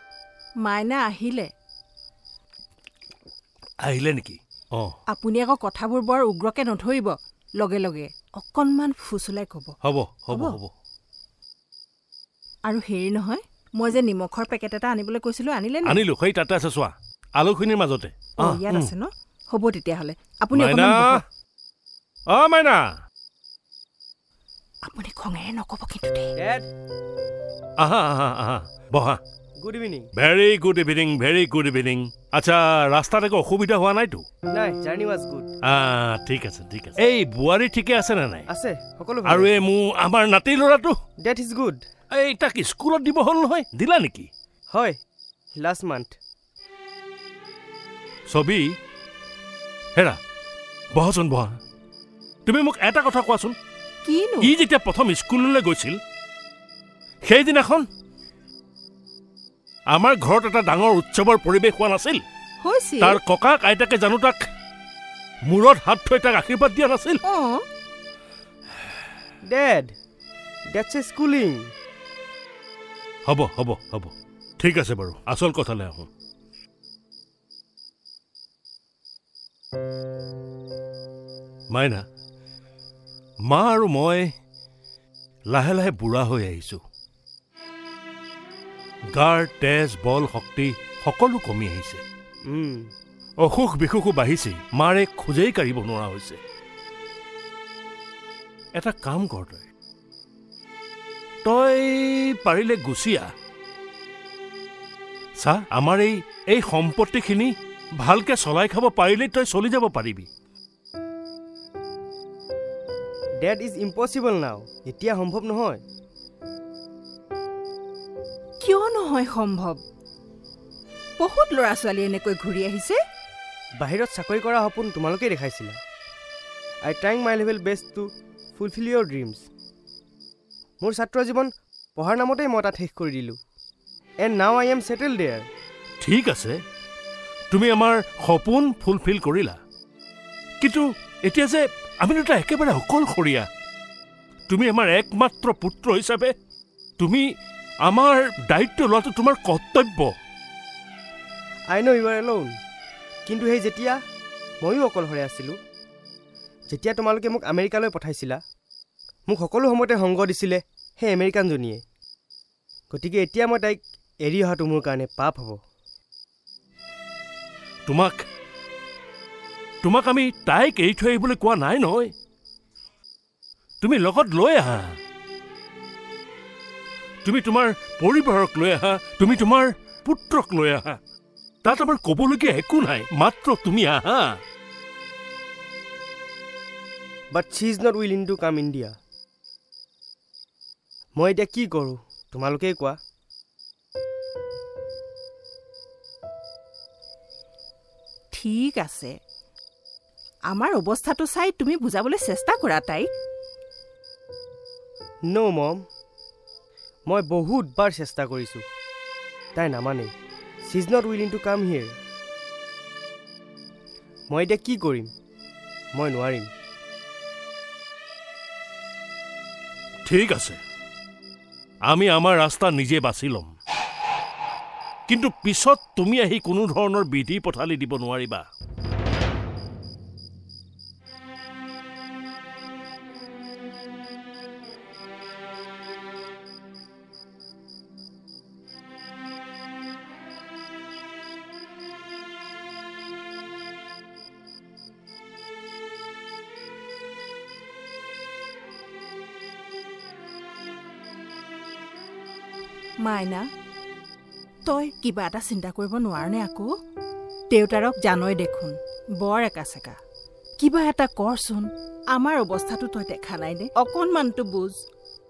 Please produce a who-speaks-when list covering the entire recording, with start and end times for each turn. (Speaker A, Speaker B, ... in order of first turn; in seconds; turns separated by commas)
Speaker A: 0.6-1.5, Speaker B: 3.8-5.0, Speaker A: 5.1-9.8, Speaker B: 9.8-10.7, Speaker A: 10.3-10.6, Speaker A: 12.7-16.0, Speaker B: 15.8-18.9, Speaker A: 18.4-21.2, Speaker B: 20.5-21.2, Speaker B: 22.3-22.8, Speaker A: 24.9-26.3, Speaker C: 26.4-26.7, Speaker B: 27.8-29.2, Speaker C: 29.6-30.1, Speaker B: 30.2-34.2, Speaker C: 34.5-35.5, Speaker B: 35.6-38.5, Speaker C: 38.5-39.5, Speaker B: 39.3-41.0, Speaker C: 41.2-41.8, Speaker B: 42.1-44.3, Speaker C: 44.7-45.0, Speaker C: 45.6-46.1, Speaker B: 48.3-48.7, Speaker B: 50.9-51.6, Speaker B: 52.5-53.5, Speaker A: 54.0-54.5, Speaker B: 54.4-56.0, Speaker B: 57.2-57.9, Speaker B: 59.9-62.2, Speaker A: 62.6-63.2, Speaker B: 63.0-64.5, Speaker B: 65.5-67.2, Speaker A: 67.2-67.6, Speaker C: 69.5-69.9, Speaker C: 70.7-71.7, Speaker B: 73.3-76.1, Speaker B: 81.7-82.0, Speaker B: 83.5-84.3, Speaker B: 85.5-86.8, Speaker B: 89.1-92.0, Speaker C: 92.5-92.9, Speaker B: 93.4-96.4, Speaker B: 98.8-99.7, Speaker B: 101.5-103.3, Speaker B: 105.4-110.3, Speaker C: 113.4-115.8, Speaker A: 118.6-119.8, Speaker A: 121.2-123.0, Speaker C: 123.8-125.8, Speaker C: 126.8-129.5, Speaker C: 130.8-133.4, Speaker C: 134.2-135.5, Speaker B: 136.0-136.6, Speaker B: 137.5-139.6, Speaker B: 140.6-143.5, Speaker B: 144.5-146.3, Speaker B: 147.0-147.2, Speaker B: 147.8-150.1, Speaker C: 151.7-152.5, Speaker C: 153.3-154.0, Speaker C: 154.6-155.6, Speaker C: 156.7-158.4, Speaker C: 159.3-161.8, Speaker C: 162.9-165.6, Speaker B: 167.9-168.2, Speaker B: 169.8-172.1, Speaker B: 173.8-175.0, Speaker B: 177.2-181.0, Speaker B: 181.6-184.4, Speaker C: 187.3-188.9, Speaker C: 191.2-193.0, Speaker A: 198.3-199.1, Speaker A: 200.5-203.1, Speaker C: 205.3-205.8, Speaker C: 207.1-208.6, Speaker C: 209.6-210.1, Speaker C: 210.7-211.9, Speaker C: 214.3-215.1, Speaker C: 215.9-216.5, Speaker B: 220.1-220.6, Speaker B: 221.9-223.5, Speaker B: 225.1-228.4, Speaker A: 253.0-253.5, Speaker A: 254.7-256.7, Speaker A: 257.5-260.0, Speaker A: 260.6-264.8